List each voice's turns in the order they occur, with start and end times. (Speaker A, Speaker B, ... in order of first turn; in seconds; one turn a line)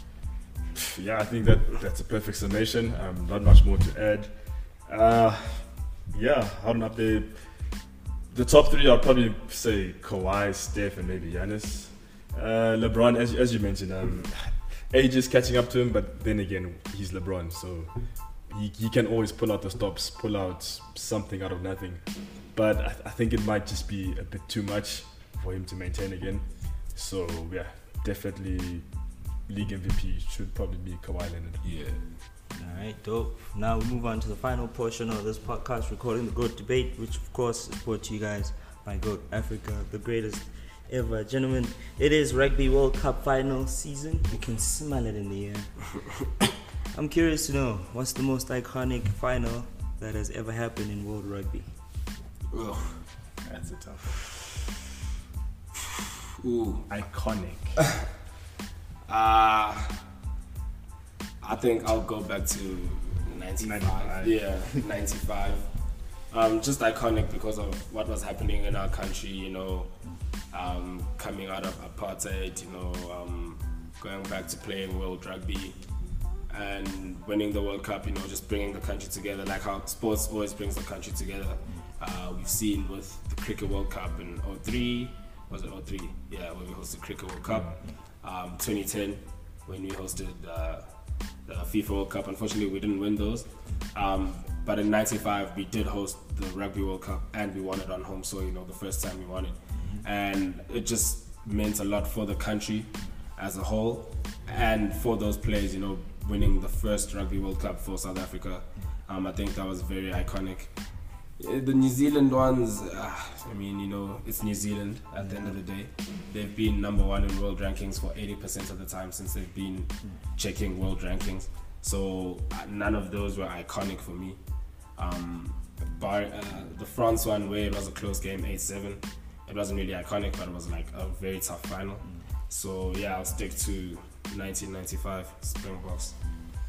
Speaker A: 0.8-31.9
Speaker B: 31.6-32.1
Speaker C: 32.5-46.4
Speaker C: 46.9-51.7
Speaker B: 52.5-53.1
Speaker A: 53.4-54.3
Speaker B: 56.4-56.9
Speaker A: 56.9-57.9
Speaker B: 59.1-60.0
Speaker B: 61.4-136.2
Speaker A: 63.6-64.5
Speaker C: 99.8-100.0
Speaker C: 115.2-115.6